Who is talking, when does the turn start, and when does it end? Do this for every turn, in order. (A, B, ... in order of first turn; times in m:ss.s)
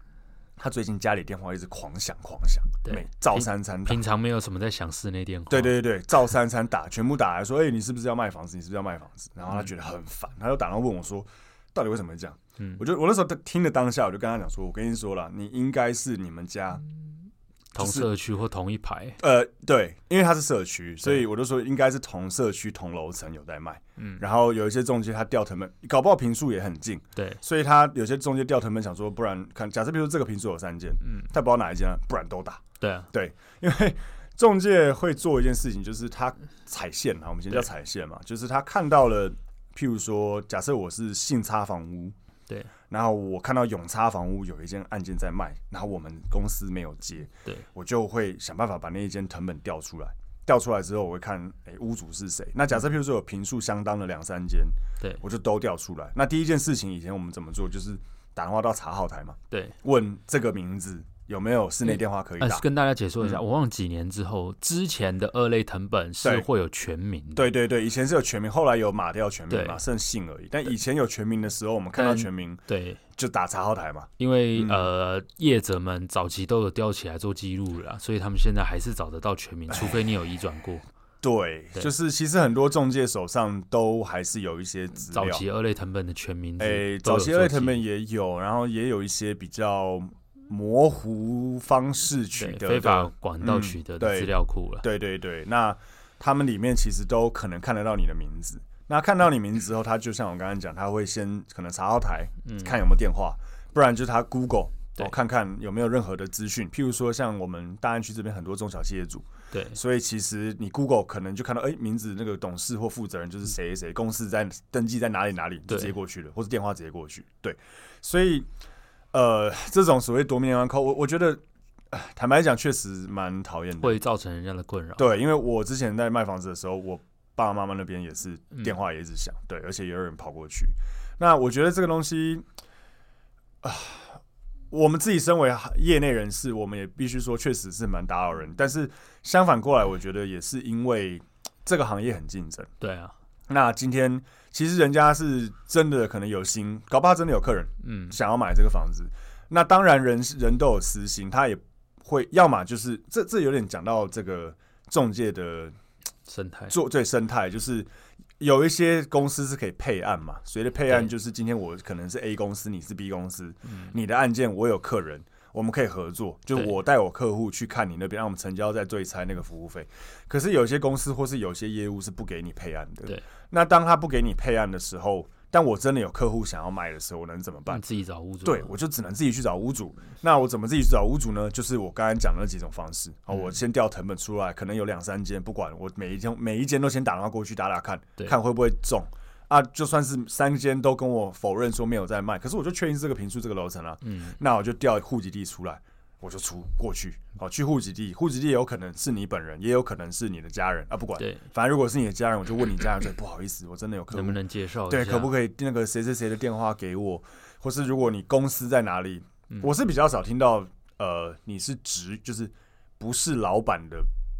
0:00.6-0:04.0 A
0:02.8-0:05.8 B
0:05.5-0:16.8 A
0:17.7-0:19.2 B
0:17.8-0:18.1 A
0:19.2-0:42.1 A
0:24.0-0:24.2 B
0:27.2-0:27.4 B
0:32.8-0:33.1 B
0:42.9-1:02.6 A
0:59.5-0:59.8 B
1:01.8-1:07.5 B
1:07.3-1:12.6 A
1:09.5-1:09.8 B
1:12.0-1:13.0 B
1:13.2-1:14.9 A
1:14.2-1:20.8 B
1:21.2-1:25.4 A
1:25.1-1:27.8 B
1:26.6-1:58.5 A
1:32.4-1:34.8 B
1:42.4-1:42.7 B
1:49.5-1:49.8 B
1:55.7-1:55.9 B
1:59.1-2:04.0 A
2:03.8-2:05.1 B
2:05.0-2:12.4 A
2:13.6-2:22.7 A
2:22.8-2:23.1 B
2:23.5-2:35.7 A
2:27.8-2:28.1 B
2:36.2-2:36.7 B
2:36.7-2:37.9 A
2:38.4-2:57.8 A
2:57.7-2:58.7 B
2:58.4-3:34.1 A
3:14.0-3:14.4 B
3:24.1-3:25.3 B